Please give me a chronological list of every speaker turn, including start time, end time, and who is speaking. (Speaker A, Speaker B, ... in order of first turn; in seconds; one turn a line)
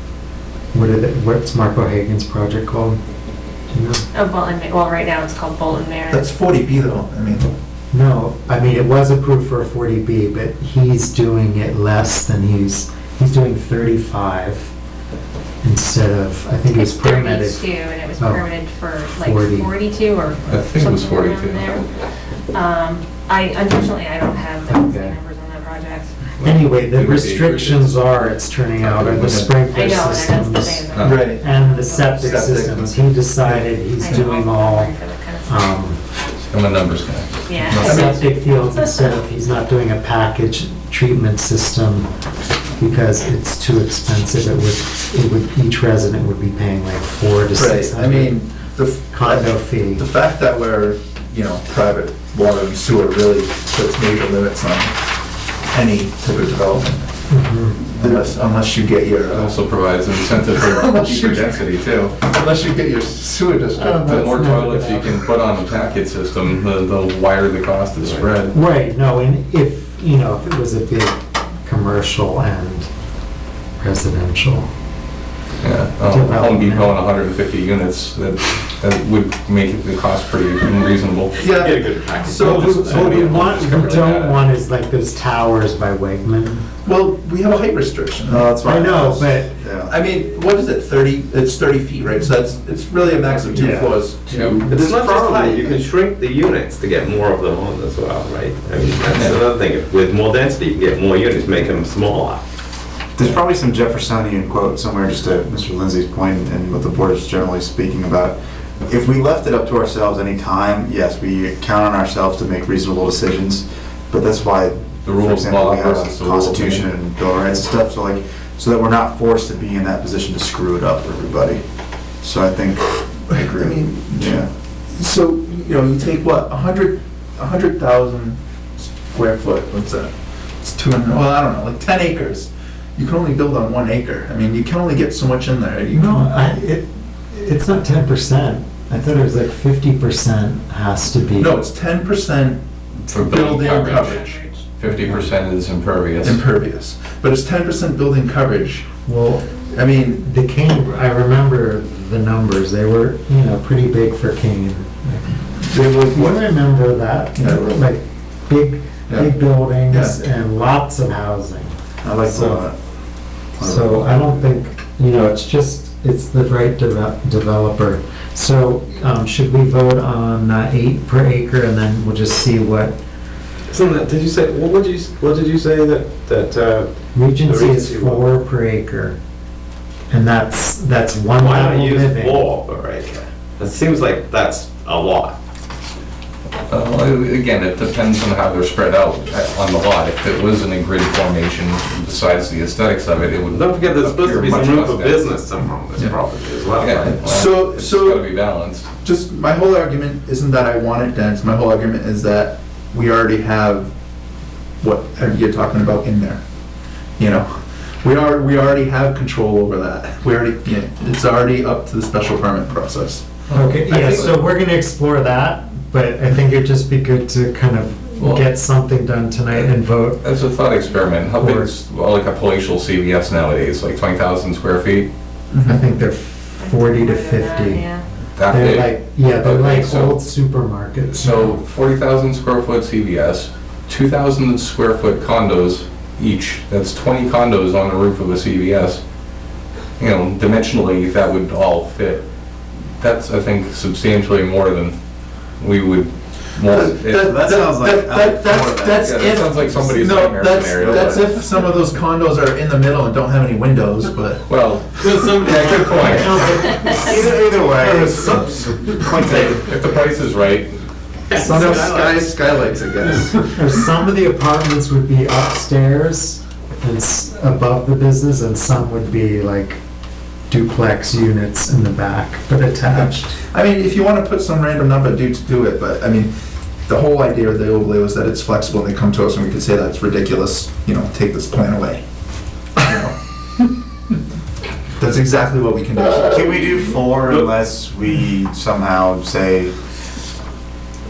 Speaker A: 0.7-3.0
Speaker A: 3.7-4.0
Speaker B: 4.1-6.3
Speaker C: 6.1-7.5
Speaker A: 7.9-14.7
Speaker A: 15.6-17.6
Speaker B: 16.7-21.8
Speaker A: 18.2-18.4
Speaker A: 19.2-19.7
Speaker D: 20.4-21.8
Speaker B: 22.5-26.2
Speaker A: 24.6-25.2
Speaker D: 26.4-28.3
Speaker A: 26.4-34.9
Speaker D: 28.8-29.7
Speaker B: 29.6-32.4
Speaker D: 30.9-31.3
Speaker C: 31.0-31.4
Speaker C: 32.2-33.7
Speaker B: 33.9-35.7
Speaker A: 35.5-36.0
Speaker D: 36.5-37.5
Speaker B: 37.5-39.2
Speaker A: 37.7-42.1
Speaker C: 37.8-38.2
Speaker A: 42.8-48.4
Speaker C: 47.5-55.0
Speaker A: 49.1-50.0
Speaker C: 55.7-57.2
Speaker A: 57.3-58.0
Speaker C: 57.8-59.5
Speaker D: 59.3-62.2
Speaker C: 60.3-64.9
Speaker A: 63.7-65.1
Speaker D: 64.0-68.5
Speaker A: 68.5-72.9
Speaker A: 73.8-74.7
Speaker D: 75.6-81.5
Speaker A: 76.1-76.9
Speaker E: 81.3-83.5
Speaker C: 81.4-82.8
Speaker A: 82.3-86.7
Speaker D: 82.6-84.5
Speaker C: 86.8-88.5
Speaker F: 88.2-89.9
Speaker A: 88.6-89.5
Speaker C: 89.9-95.8
Speaker A: 93.5-94.0
Speaker D: 94.3-94.6
Speaker E: 94.7-102.4
Speaker D: 99.1-99.4
Speaker F: 103.2-121.6
Speaker D: 115.0-116.9
Speaker F: 122.2-124.5
Speaker C: 123.3-136.3
Speaker A: 135.9-141.6
Speaker C: 141.4-144.4
Speaker D: 143.1-144.2
Speaker B: 144.0-144.7
Speaker D: 144.8-146.4
Speaker C: 146.2-149.0
Speaker A: 149.0-149.6
Speaker C: 149.6-150.2
Speaker A: 150.1-162.7
Speaker C: 155.6-156.4
Speaker C: 157.3-157.6
Speaker C: 159.9-160.2
Speaker F: 162.0-162.8
Speaker F: 163.6-164.2
Speaker A: 163.6-172.9
Speaker E: 173.7-178.3
Speaker A: 177.1-179.2
Speaker A: 180.1-182.4
Speaker E: 181.3-185.4
Speaker D: 186.7-195.3
Speaker E: 193.5-197.3
Speaker D: 196.8-198.9
Speaker C: 197.1-198.2
Speaker C: 199.0-203.9
Speaker C: 204.8-206.4
Speaker C: 207.2-213.3
Speaker D: 213.5-214.4
Speaker A: 213.5-220.2
Speaker D: 220.2-225.1
Speaker A: 221.3-221.7
Speaker C: 225.5-225.8
Speaker A: 225.6-227.9
Speaker B: 226.6-228.1
Speaker D: 228.3-230.2
Speaker A: 228.5-231.6
Speaker D: 231.1-239.0
Speaker D: 240.0-242.2
Speaker D: 243.0-244.9
Speaker D: 245.6-247.3
Speaker C: 246.6-254.5
Speaker F: 247.1-249.2
Speaker D: 249.0-251.4
Speaker D: 254.5-256.6
Speaker E: 255.0-256.5
Speaker A: 256.0-257.3
Speaker F: 256.8-259.7
Speaker E: 257.8-259.1
Speaker D: 259.2-260.7
Speaker E: 261.3-262.4
Speaker C: 261.3-263.4
Speaker A: 263.5-269.8
Speaker A: 270.5-273.3
Speaker C: 272.8-276.3
Speaker C: 276.9-282.0
Speaker C: 282.8-283.1
Speaker C: 285.0-286.7
Speaker F: 286.1-289.7
Speaker E: 287.2-287.5